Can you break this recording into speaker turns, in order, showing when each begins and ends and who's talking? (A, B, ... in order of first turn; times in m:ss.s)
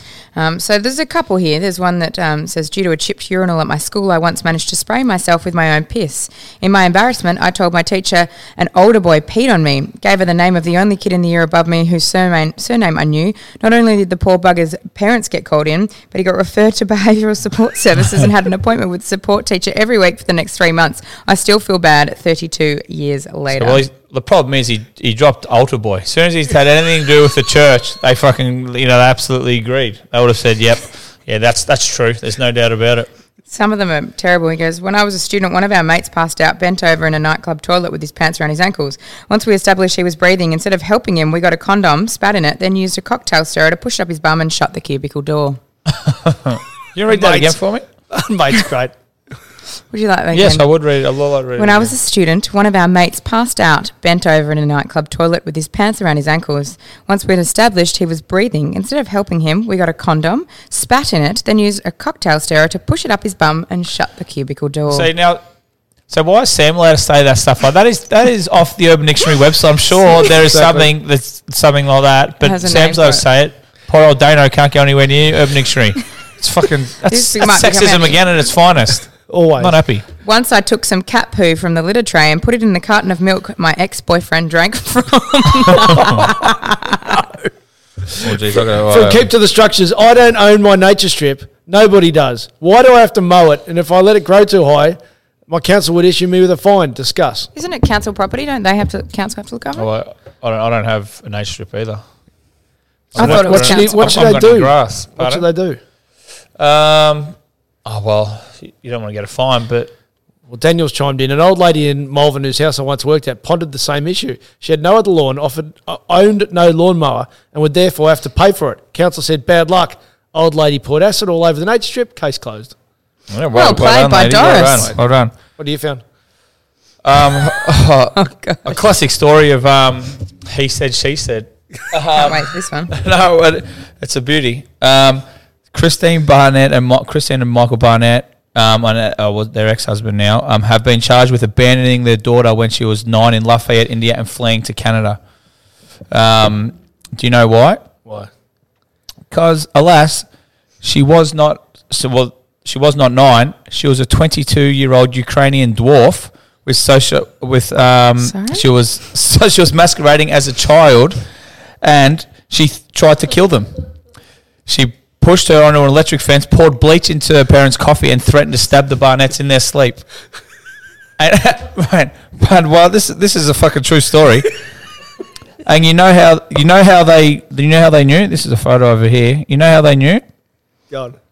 0:00.3-0:23.8 A
0:23.5-0:33.1 B
0:33.5-0:45.6 A
0:45.9-0:47.9 B
0:47.0-0:47.6 C
0:48.1-0:48.9 C
0:49.9-0:50.7 A
0:50.3-0:51.9 B
0:51.6-1:05.1 A
1:04.9-1:05.4 B
1:06.1-1:20.0 B
1:10.5-1:10.9 C
1:12.4-1:13.2 A
1:17.1-1:18.2 A
1:19.3-1:19.8 C
1:20.2-1:27.0 A
1:25.8-1:26.4 C
1:28.1-1:37.5 C
1:28.2-1:29.3 B
1:37.6-1:39.9 A
1:39.7-1:42.0 B
1:43.1-1:45.8 C
1:43.1-1:45.5 B
1:43.2-1:44.2 A
1:46.6-1:49.9 B
1:50.5-2:02.7 C
2:03.3-2:05.3 B
2:03.6-2:04.9 A
2:04.7-2:05.0 C
2:05.6-2:06.0 C
2:07.0-2:25.2 B
2:08.1-2:08.8 A
2:12.1-2:12.9 A
2:26.1-2:27.8 B
2:29.3-2:30.3 B
2:30.8-2:41.2 B
2:38.2-2:38.6 A
2:41.8-2:43.7 B
2:44.6-2:50.0 B
2:51.2-2:54.5 B
2:55.6-3:00.2 B
3:00.9-3:01.2 C